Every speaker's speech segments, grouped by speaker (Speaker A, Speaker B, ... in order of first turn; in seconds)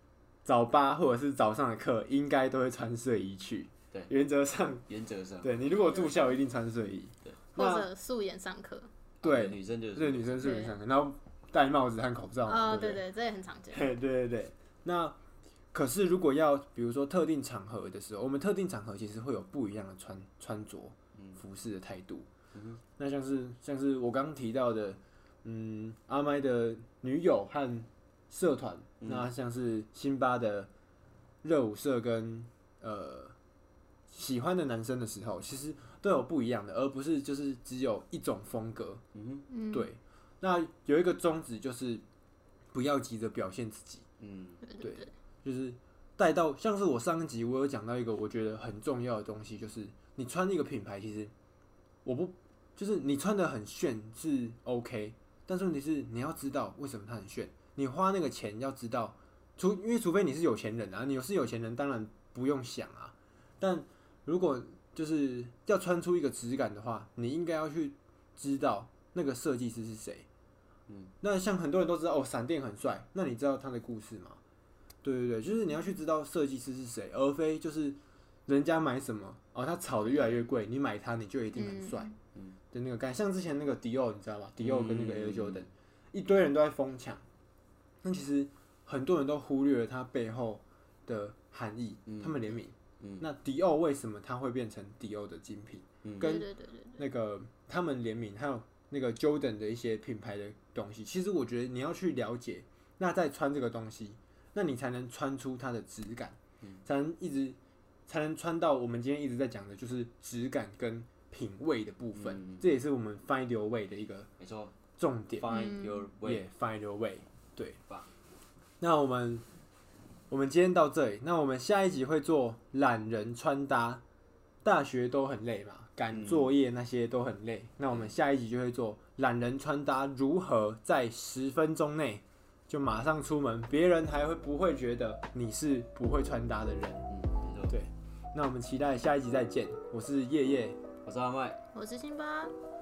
Speaker A: 0.4-4.8, 5.4-7.9, 9.2-13.0, 13.7-15.2, 15.7-22.3, 23.0-30.7, 31.4-33.3, 34.1-39.0, 39.7-42.0, 42.7-44.0, 44.8-51.3, 52.0-70.2, 71.2-74.4, 75.0-82.1, 82.7-87.2, 88.0-114.3, 115.0-115.5, 116.2-117.8, 118.8-119.4, 120.3-124.0, 124.6-137.1, 137.7-140.8
Speaker B: 4.9-5.6, 9.2-10.5, 22.5-22.8, 29.0-29.3, 39.1-39.5, 44.2-44.6, 70.9-71.1, 84.6-85.7, 92.1-92.4, 93.0-93.2, 96.0-96.4, 112.1-112.7, 114.4-114.8, 115.3-116.4, 126.1-126.5, 137.1-137.8, 141.0-141.6
Speaker C: 7.5-8.9, 10.4-10.8, 12.4-13.9, 39.5-39.9, 44.6-45.1, 81.5-82.1, 96.2-97.0, 141.7-142.5